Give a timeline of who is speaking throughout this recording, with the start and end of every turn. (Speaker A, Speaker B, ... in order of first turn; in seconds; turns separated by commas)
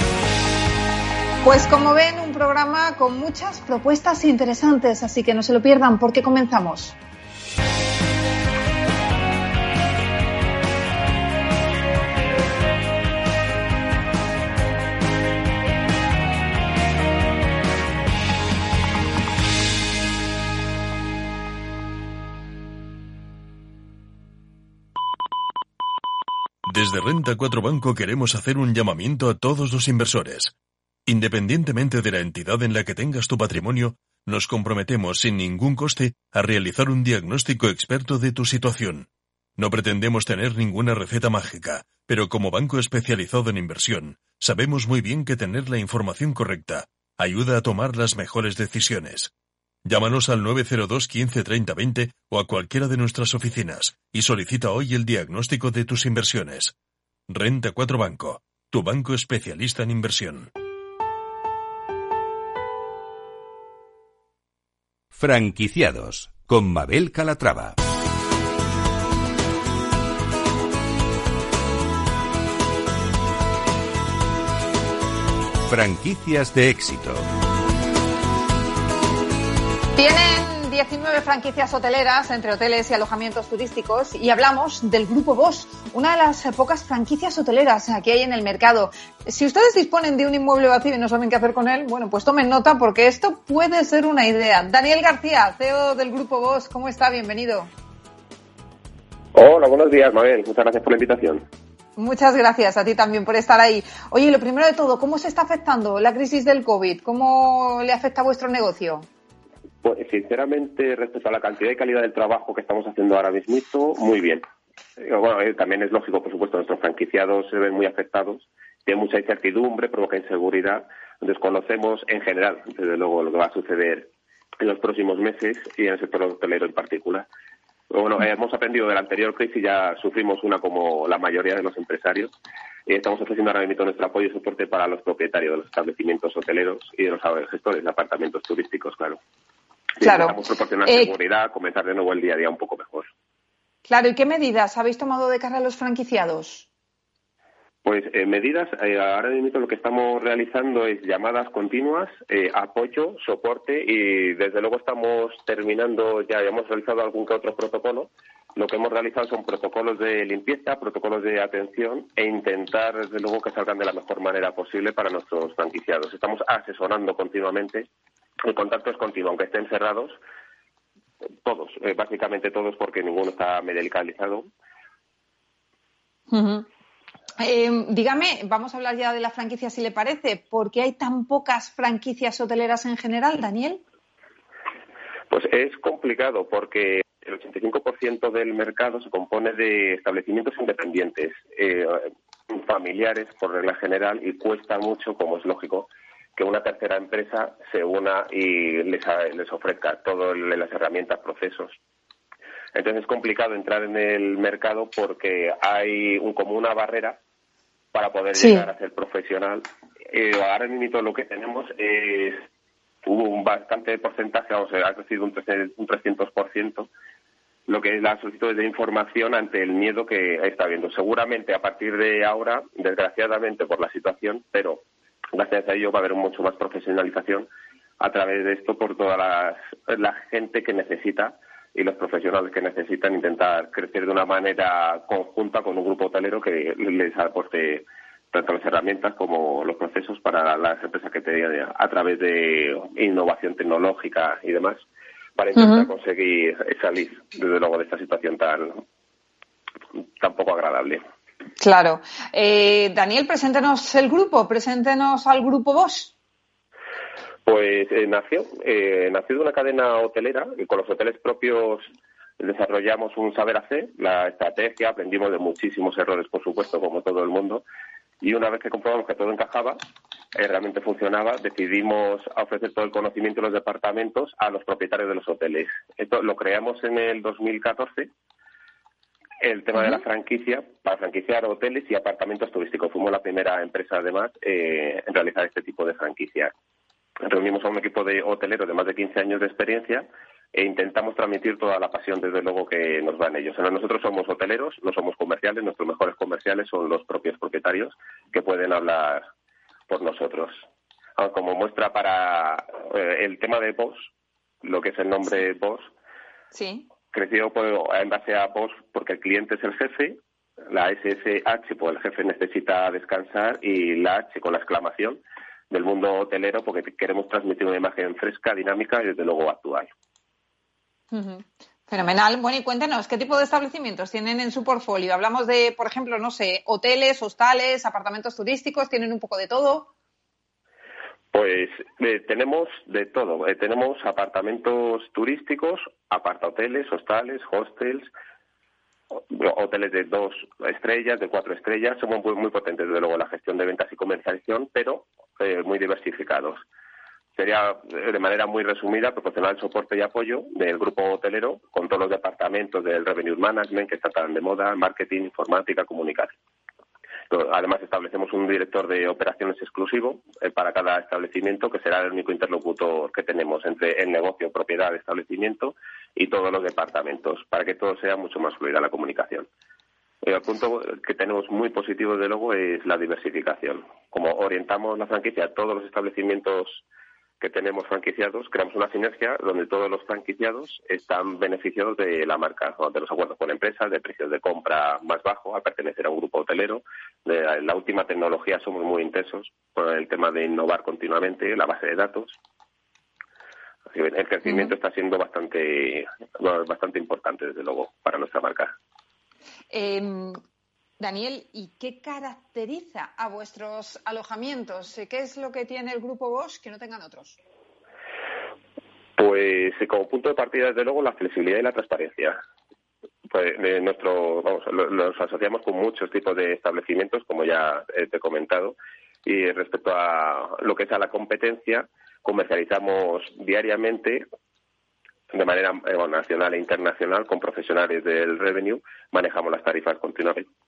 Speaker A: 1.4-7.0, Speaker B: 26.7-30.5, Speaker B: 31.1-39.1, Speaker B: 39.6-49.3, Speaker B: 49.9-56.7, Speaker B: 57.3-60.5, Speaker C: 65.1-67.8, Speaker C: 75.7-77.3, Speaker A: 80.0-97.7, Speaker D: 99.3-101.4, Speaker A: 102.0-109.1, Speaker D: 109.8-114.4, Speaker D: 115.0-127.3, Speaker D: 127.9-132.3, Speaker D: 132.9-139.2, Speaker D: 140.0-143.1, Speaker A: 140.0-141.1, Speaker A: 143.9-146.7, Speaker D: 147.8-167.9, Speaker D: 168.4-170.2, Speaker D: 171.4-174.5, Speaker A: 176.3-176.7, Speaker A: 177.4-183.8, Speaker D: 185.3-201.8, Speaker D: 202.7-207.2, Speaker D: 207.9-212.4, Speaker A: 208.3-208.7, Speaker D: 213.1-216.9, Speaker D: 217.7-224.8, Speaker D: 225.3-227.5, Speaker D: 228.0-244.8, Speaker D: 245.4-248.8, Speaker A: 245.6-245.9, Speaker D: 250.2-251.0, Speaker A: 251.6-256.1, Speaker D: 257.5-261.9, Speaker D: 262.4-267.6, Speaker D: 268.2-269.8, Speaker D: 270.3-278.1, Speaker D: 279.4-286.5, Speaker D: 287.2-299.2, Speaker D: 299.9-300.6, Speaker D: 301.2-304.1, Speaker D: 304.6-305.9, Speaker A: 306.5-306.9, Speaker D: 307.1-310.2, Speaker D: 310.7-319.9, Speaker A: 321.1-329.9, Speaker D: 331.3-338.1, Speaker D: 339.3-346.6, Speaker D: 347.4-356.3, Speaker D: 357.3-369.5, Speaker D: 370.2-376.8, Speaker D: 377.4-392.4, Speaker D: 393.9-398.8, Speaker A: 399.7-400.4, Speaker A: 401.0-407.4, Speaker D: 409.2-412.4, Speaker D: 413.3-424.2, Speaker D: 425.3-430.5